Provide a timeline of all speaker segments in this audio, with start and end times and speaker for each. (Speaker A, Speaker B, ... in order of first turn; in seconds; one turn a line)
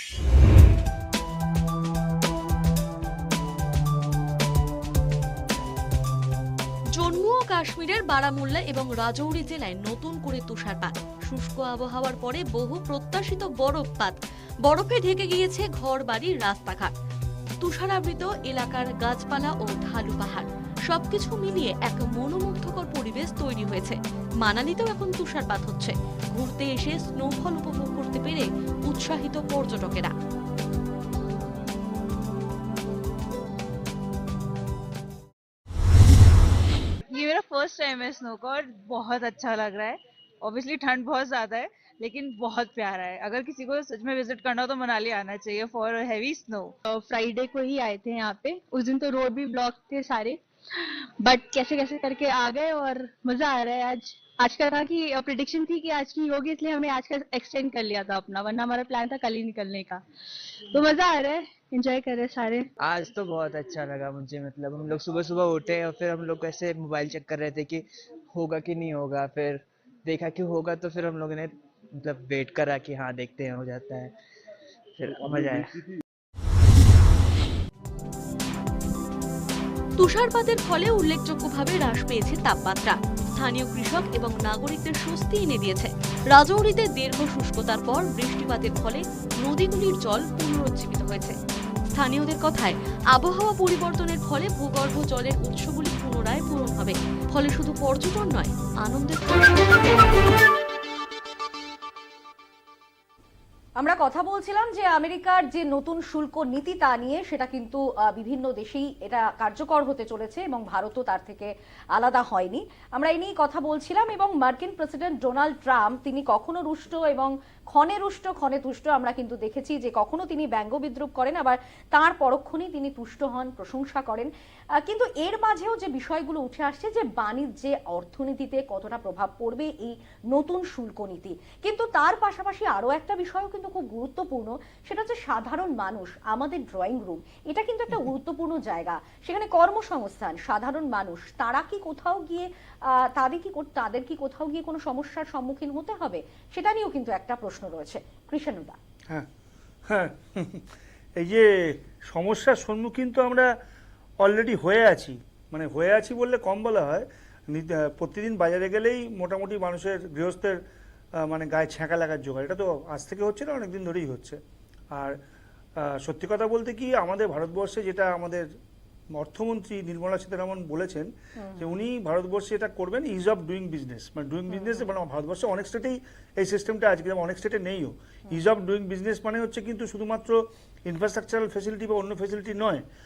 Speaker A: 7.0-16.9
Speaker A: 17.6-30.1
Speaker B: 37.1-46.7
Speaker C: 46.9-60.0
Speaker C: 60.7-62.7
Speaker D: 62.8-74.1
Speaker D: 75.0-75.8
Speaker A: 80.0-91.4
Speaker A: 92.0-100.0
Speaker E: 103.8-148.8
Speaker F: 149.9-150.7
Speaker F: 151.2-153.5
Speaker F: 154.2-160.6
Speaker F: 161.2-164.4
Speaker F: 165.8-168.5
Speaker F: 169.2-182.8
Speaker E: 171.4-171.7
Speaker E: 174.5-174.8